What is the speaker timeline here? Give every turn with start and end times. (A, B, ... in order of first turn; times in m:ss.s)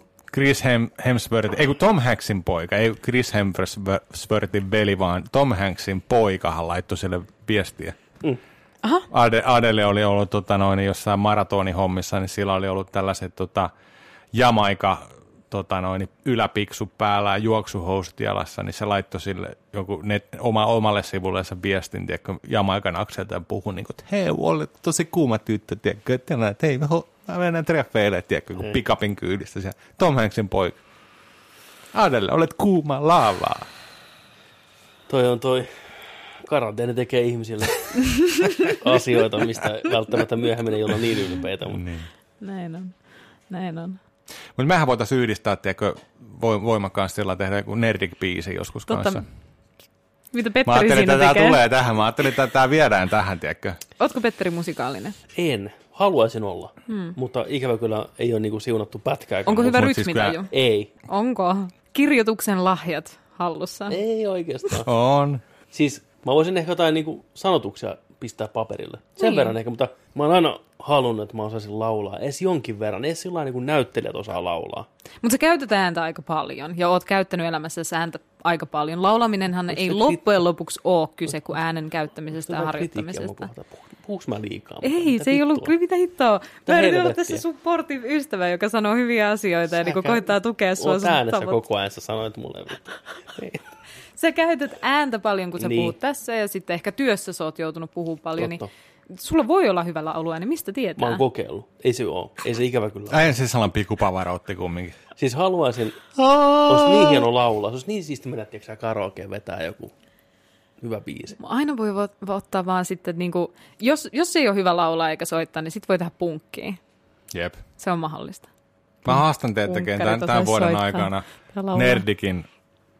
0:00.3-0:08.0 A
0:09.1-0:13.7 A
0:14.3-0:30.8 A
0:31.9-0:33.7 A
0:35.1-0:41.8 B
0:41.7-0:42.1 A
0:42.4-0:42.9 C
0:43.5-0:44.0 C
0:44.6-0:49.2 A
0:48.9-0:49.2 C
0:50.3-0:51.6 C
0:50.6-0:53.8 A
0:54.0-0:55.2 C
0:55.4-0:59.8 B
0:56.9-0:57.2 C
0:59.5-1:00.5 C
0:59.6-1:00.4 A
1:00.5-1:00.9 B
1:01.1-1:04.0 C
1:03.9-1:04.9 B
1:04.9-1:05.4 A
1:05.7-1:14.9 B
1:09.2-1:09.5 C
1:15.2-1:23.5 C
1:19.7-1:20.2 B
1:22.3-1:25.7 B
1:24.8-1:31.6 C
1:26.6-1:27.4 B
1:29.8-1:33.6 B
1:34.2-1:41.2 C
1:35.6-1:35.9 B
1:38.4-1:38.7 B
1:41.0-1:43.4 B
1:43.1-1:45.0 A
1:45.2-1:46.0 B
1:46.2-1:47.3 A
1:46.6-1:49.9 B
1:50.8-1:51.4 B
1:51.4-1:56.8 C
1:57.3-1:57.6 A
1:57.8-1:58.5 C
1:59.1-2:02.0 C
1:59.1-2:02.5 A